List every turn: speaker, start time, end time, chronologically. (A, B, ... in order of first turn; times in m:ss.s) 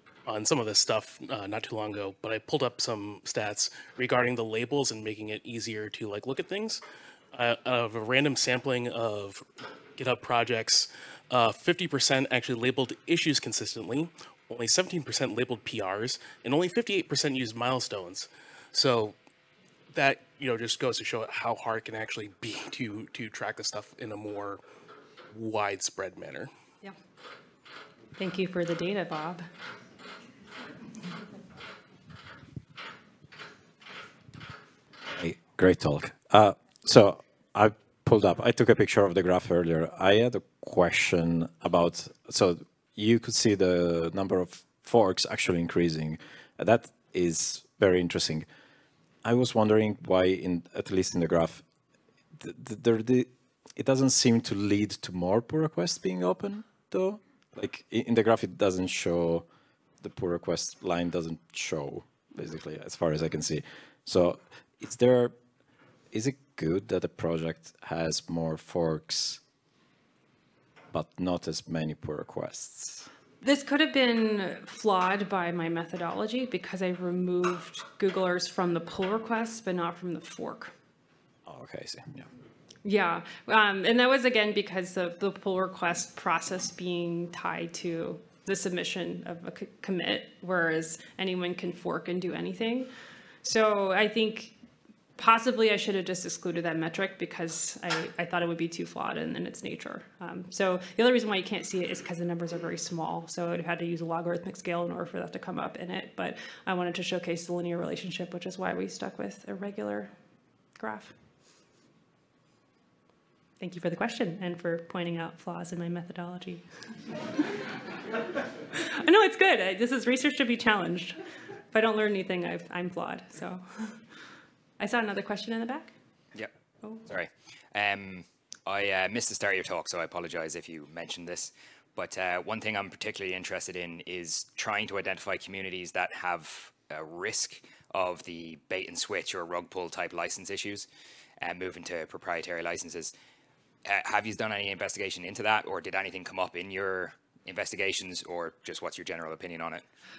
0:00.2-0:19.2 A
0:19.9-0:24.6 A
0:25.3-0:26.5 A
0:28.2-0:29.4 B
0:35.2-0:48.5 C
0:49.2-0:51.6 C
0:52.4-0:59.4 C
1:00.0-1:05.3 C
1:06.1-1:09.4 C
1:10.9-1:13.1 C
1:13.4-1:20.7 B
1:21.4-1:22.2 C
1:22.8-1:32.9 B
1:33.4-1:34.5 B
1:35.2-1:50.1 B
1:50.8-1:51.1 B
1:53.6-1:56.6 B
1:58.8-2:01.1 B
2:01.7-2:03.9 B
2:04.8-2:05.9 B
2:07.0-2:20.9 D
2:21.4-2:23.1 D
2:23.8-2:29.8 D